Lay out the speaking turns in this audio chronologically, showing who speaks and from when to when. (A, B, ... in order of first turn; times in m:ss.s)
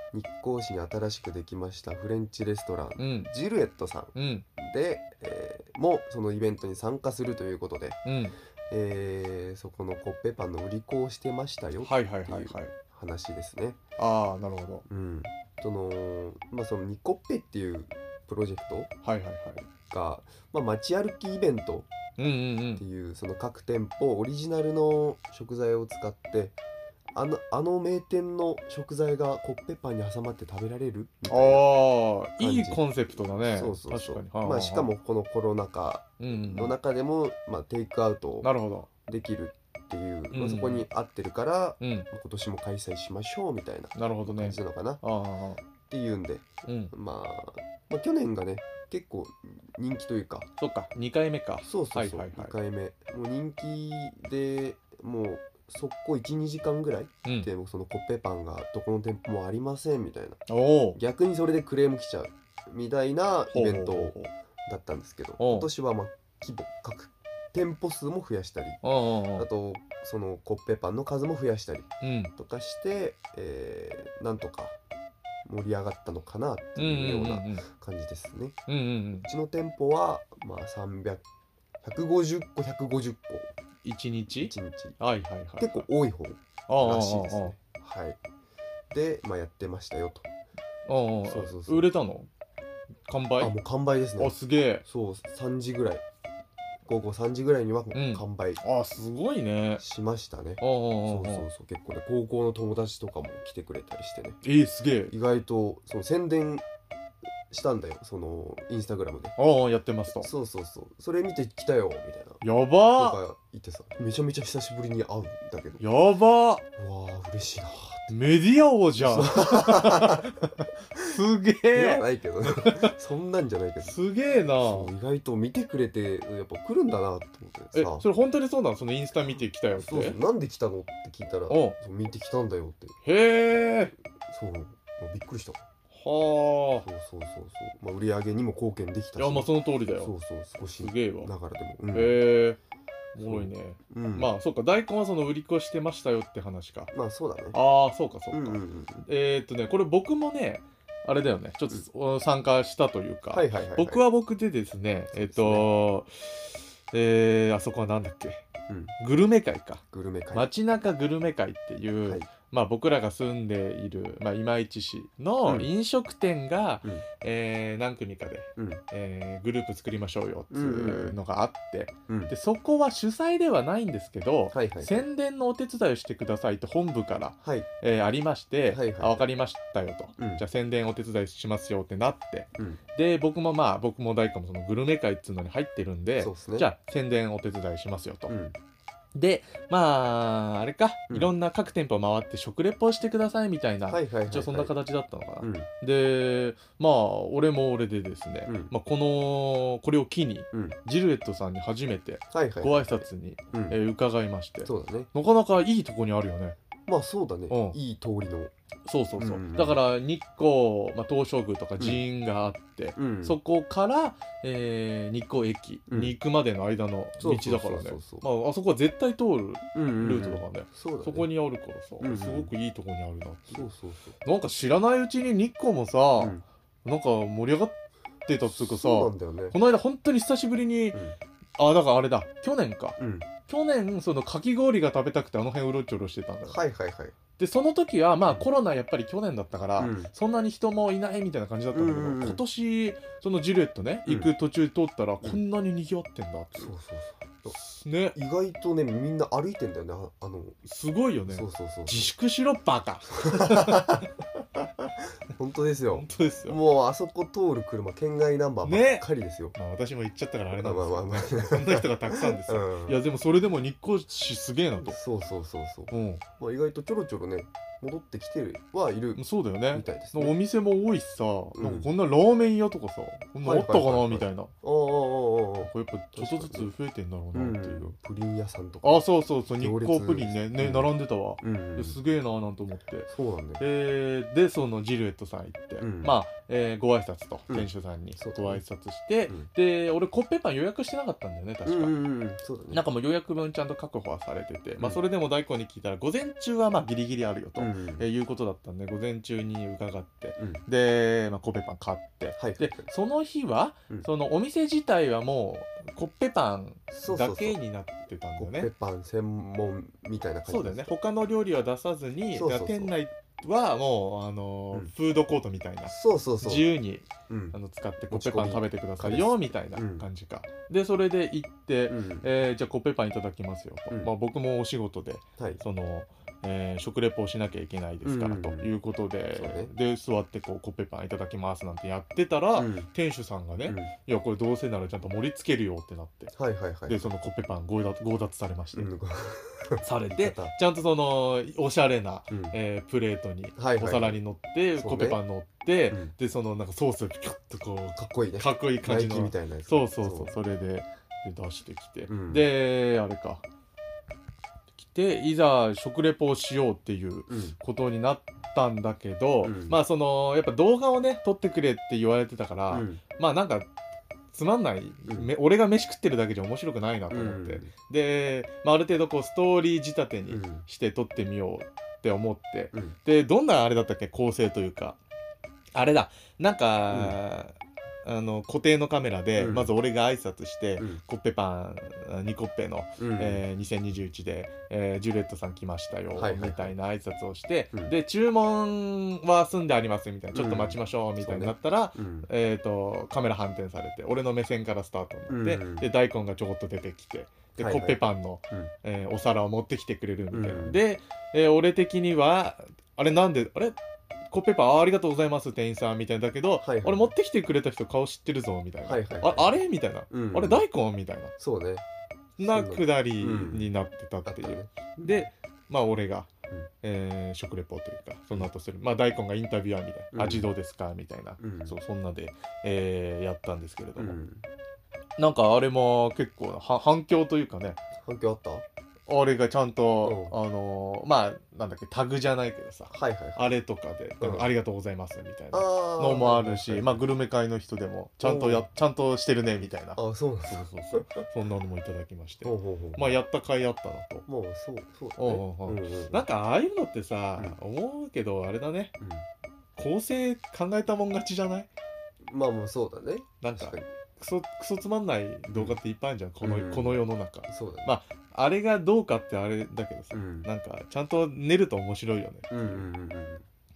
0:00.1-0:08.0 A
0:03.0-0:03.3 B
0:04.1-0:04.4 B
0:08.0-0:08.3 B
0:08.7-0:13.8 A
0:11.8-0:12.7 B
0:14.0-0:14.8 B
0:14.9-0:18.9 A
0:19.0-0:19.6 B
0:19.7-0:21.9 A
0:22.2-0:22.8 B
0:22.8-0:26.5 A
0:27.1-0:31.6 A
0:31.3-0:34.9 B
0:32.4-0:38.5 A
0:36.2-0:36.7 B
0:38.4-0:38.9 B
0:39.1-0:45.0 A
0:40.3-0:40.8 B
0:41.8-0:42.1 B
0:43.9-0:45.6 B
0:45.9-0:50.5 A
0:46.6-0:46.9 B
0:50.6-0:52.5 B
0:51.6-1:00.4 A
1:00.5-1:01.0 B
1:00.9-1:08.8 A
1:03.5-1:04.3 B
1:05.4-1:05.7 B
1:08.8-1:09.4 B
1:09.3-1:14.7 A
1:12.0-1:12.3 B
1:15.4-1:18.6 A
1:16.8-1:17.6 B
1:18.7-1:19.3 B
1:19.2-1:21.2 A
1:21.8-1:23.5 A
1:23.8-1:25.9 B
1:24.4-1:25.0 A
1:25.6-1:28.2 A
1:26.7-1:27.6 B
1:28.9-1:30.3 A
1:30.8-1:32.3 B
1:31.2-1:31.9 A
1:33.1-1:33.5 B
1:33.4-1:36.0 A
1:34.2-1:34.8 B
1:36.8-1:38.6 A
1:37.9-1:39.8 B
1:39.8-1:44.4 A
1:40.6-1:41.5 B
1:44.4-1:45.1 B
1:45.1-1:46.6 A
1:47.5-1:49.4 A
1:49.4-1:50.3 B
1:50.1-1:52.4 A
1:52.4-1:53.2 B
1:52.9-1:55.8 A
1:55.8-1:56.6 B
1:56.8-1:58.1 A
1:58.1-2:02.0 B
1:59.0-2:00.2 A
2:01.7-2:04.0 A
2:02.6-2:02.9 B
2:03.8-2:04.9 B
2:04.5-2:08.0 A
2:07.7-2:10.2 B
2:09.8-2:13.0 A
2:11.5-2:11.7 B
2:13.0-2:13.9 B
2:14.3-2:15.6 A
2:15.9-2:16.8 B
2:16.8-2:22.2 A
2:19.2-2:21.3 B
2:21.9-2:22.6 B
2:23.1-2:26.9 B
2:23.2-2:24.3 A
2:26.9-2:27.6 A
2:27.5-2:38.4 B
2:28.3-2:29.1 A
2:33.3-2:34.0 A
2:35.1-2:35.7 A
2:38.7-2:39.0 A
2:39.0-3:08.3 B
2:39.9-2:40.5 A
2:48.6-2:48.8 A
2:50.5-2:51.2 A
2:52.1-2:52.3 A
2:54.5-2:55.1 A
2:57.4-2:57.7 A
2:58.7-2:59.2 A
3:00.2-3:00.4 A
3:06.2-3:06.7 A
3:08.3-3:08.6 A
3:09.1-3:26.6 B
3:13.9-3:14.7 A
3:15.4-3:15.7 A
3:18.4-3:18.7 A
3:20.5-3:20.8 A
3:22.3-3:23.8 A
3:24.6-3:25.1 A
3:26.8-3:28.5 A
3:27.5-3:27.8 B
3:28.8-3:43.7 B
3:29.1-3:29.8 A
3:31.8-3:32.0 A
3:33.0-3:33.4 A
3:35.9-3:36.2 A
3:37.2-3:38.3 A
3:39.7-3:41.3 A
3:42.0-3:42.5 A
3:43.5-3:44.2 A
3:44.2-3:51.0 B
3:46.2-3:46.4 A
3:48.4-3:49.6 A
3:51.6-3:56.6 B
3:53.0-3:53.3 A
3:56.4-3:57.2 A
3:57.4-4:06.7 B
3:59.8-4:00.1 A
4:01.7-4:02.4 A
4:04.0-4:04.3 A
4:06.6-4:07.6 A
4:07.5-4:08.2 B
4:08.1-4:10.6 A
4:10.6-4:14.1 B
4:11.2-4:12.1 A
4:13.2-4:14.0 A
4:15.3-4:19.6 A
4:15.9-4:16.6 B
4:18.6-4:19.0 B
4:19.6-4:25.0 B
4:20.5-4:23.0 A
4:24.8-4:30.4 A
4:25.9-4:26.2 B
4:29.1-4:34.5 B
4:31.5-4:31.9 A
4:33.4-4:36.7 A
4:35.7-4:37.9 B
4:37.3-4:39.0 A
4:38.8-4:52.0 B
4:39.6-4:42.0 A
4:43.1-4:43.6 A
4:45.8-4:46.2 A
4:47.5-4:48.6 A
4:51.6-4:52.8 A
4:52.7-5:08.7 B
4:57.6-4:58.0 A
5:00.4-5:00.6 A
5:02.4-5:02.9 A
5:06.9-5:07.6 A
5:08.4-5:10.9 A
5:10.4-5:36.3 B
5:12.3-5:12.9 A
5:15.9-5:16.7 A
5:17.3-5:17.6 A
5:18.1-5:20.1 A
5:21.9-5:22.3 A
5:28.0-5:28.7 A
5:29.3-5:29.7 A
5:32.6-5:32.9 A
5:33.6-5:33.9 A
5:36.3-5:37.1 A
5:36.8-5:38.9 B
5:38.7-5:40.5 A
5:39.8-5:53.4 B
5:42.3-5:42.6 A
5:43.6-5:44.2 A
5:44.8-5:45.2 A
5:47.9-5:50.3 A
5:52.1-5:52.5 A
5:54.8-6:03.7 B
5:57.3-5:57.6 A
5:59.4-5:59.8 A
6:02.7-6:03.0 A
6:04.3-6:15.0 B
6:07.1-6:07.7 A
6:10.3-6:10.6 A
6:15.7-6:43.8 B
6:16.9-6:17.2 A
6:19.4-6:19.7 A
6:23.0-6:23.4 A
6:26.1-6:26.7 A
6:30.3-6:32.3 A
6:35.3-6:35.9 A
6:37.6-6:38.7 A
6:40.3-6:40.8 A
6:44.3-6:51.3 B
6:46.6-6:47.1 A
6:48.8-6:50.6 A
6:51.4-6:51.8 A
6:52.4-6:53.7 A
6:52.4-6:56.3 B
6:54.2-6:55.3 A
6:56.8-7:04.2 B
7:00.1-7:00.5 A
7:01.4-7:01.8 A
7:04.0-7:04.4 A
7:05.2-7:07.8 B
7:08.0-7:08.6 A
7:09.1-7:24.2 B
7:10.0-7:10.4 A
7:12.9-7:13.5 A
7:14.2-7:14.5 A
7:15.5-7:17.1 A
7:18.2-7:18.7 A
7:19.9-7:21.1 A
7:22.4-7:23.2 A
7:24.2-7:26.3 A
7:25.2-7:28.9 B
7:29.0-7:29.2 A
7:29.8-7:31.7 B
7:32.2-7:33.9 A
7:33.4-7:42.9 B
7:35.5-7:35.8 A
7:36.4-7:37.9 A
7:40.1-7:40.5 A
7:42.5-7:43.4 A